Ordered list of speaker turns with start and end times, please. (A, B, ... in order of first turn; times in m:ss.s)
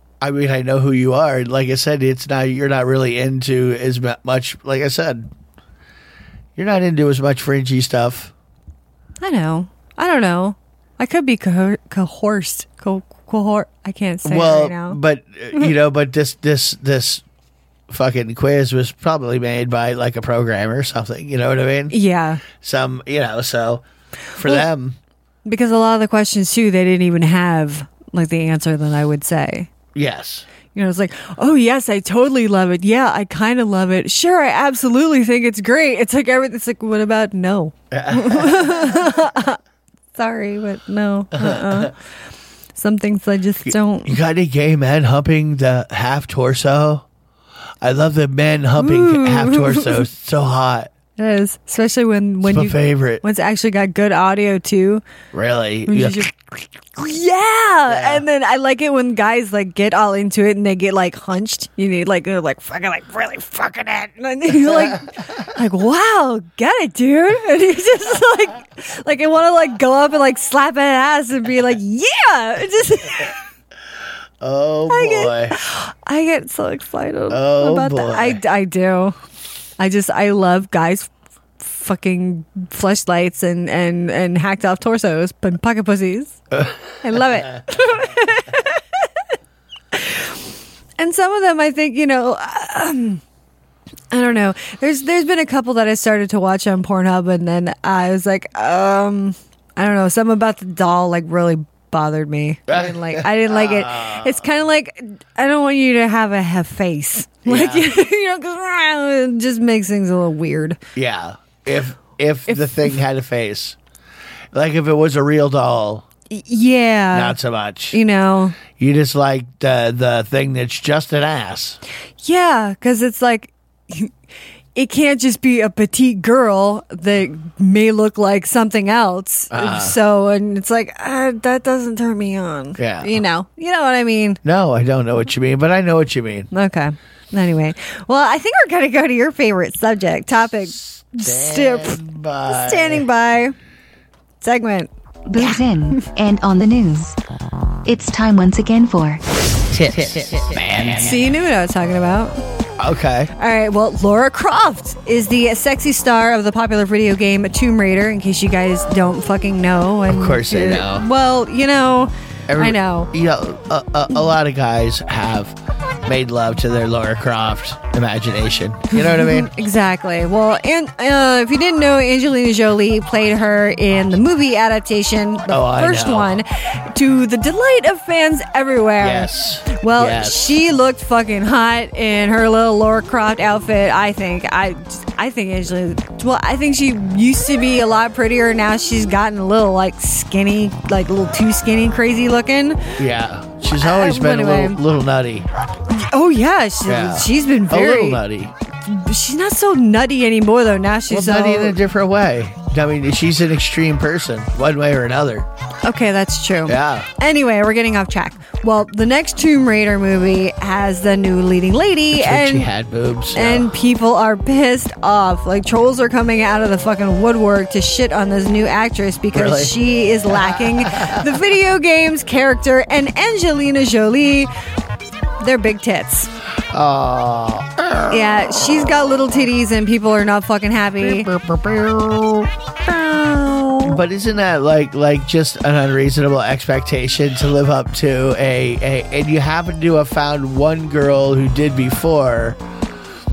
0:00.2-0:05.3 A
0:06.6-0:08.3 A
0:09.2-0:15.0 B
0:14.2-0:17.2 A
0:17.9-0:23.8 A
0:21.9-0:22.4 B
0:24.4-0:25.0 A
0:25.4-0:29.7 B
0:30.0-0:30.5 A
0:30.7-0:39.6 B
0:37.9-0:39.2 A
0:40.1-0:42.0 B
0:41.4-0:41.9 A
0:42.8-0:44.2 B
0:43.7-0:47.1 A
0:47.8-0:50.9 A
0:48.8-0:50.0 B
0:51.2-0:55.0 B
0:52.4-0:53.2 A
0:55.3-0:56.3 A
0:55.9-1:13.4 B
0:57.9-0:58.2 A
1:04.5-1:05.5 A
1:14.4-1:15.6 A
1:14.9-1:19.2 B
1:17.3-1:18.4 A
1:19.8-1:26.4 B
1:27.0-1:29.1 B
1:29.9-1:30.3 B
1:31.0-1:33.2 B
1:34.1-1:50.8 B
1:42.7-1:44.5 A
1:47.4-1:47.9 A
1:51.0-1:53.8 A
1:52.5-1:53.0 B
1:54.5-1:56.1 A
1:56.3-1:57.4 B
1:57.1-1:58.0 A
1:57.9-1:58.6 B
1:58.7-2:01.8 A
2:02.2-2:04.1 B
2:04.8-2:14.4 B
2:09.5-2:10.0 A
2:12.8-2:13.2 A
2:14.4-2:16.5 A
2:16.5-2:23.6 B
2:20.6-2:23.1 A
2:24.4-2:26.1 B
2:25.3-2:27.2 C
2:27.8-2:29.2 C
2:29.7-2:31.2 A
2:31.0-2:32.4 B
2:32.8-2:33.3 A
2:33.4-2:43.1 B
2:40.1-2:41.1 A
2:42.5-2:49.5 A
2:48.9-3:12.9 B
2:55.5-2:56.4 A
2:59.0-3:00.6 A
3:13.0-3:15.5 A
3:13.8-3:14.8 B
3:15.9-3:18.2 B
3:16.9-3:18.5 A
3:18.9-3:21.8 B
3:21.1-3:25.5 A
3:25.8-3:32.7 B
3:26.7-3:27.1 A
3:32.1-3:33.7 A
3:33.3-3:44.5 B
3:39.3-3:41.3 A
3:45.4-3:46.3 B
3:46.7-3:48.8 A
3:48.1-3:51.3 B
3:51.0-3:52.5 A
3:52.9-3:53.8 B
3:53.8-4:02.6 A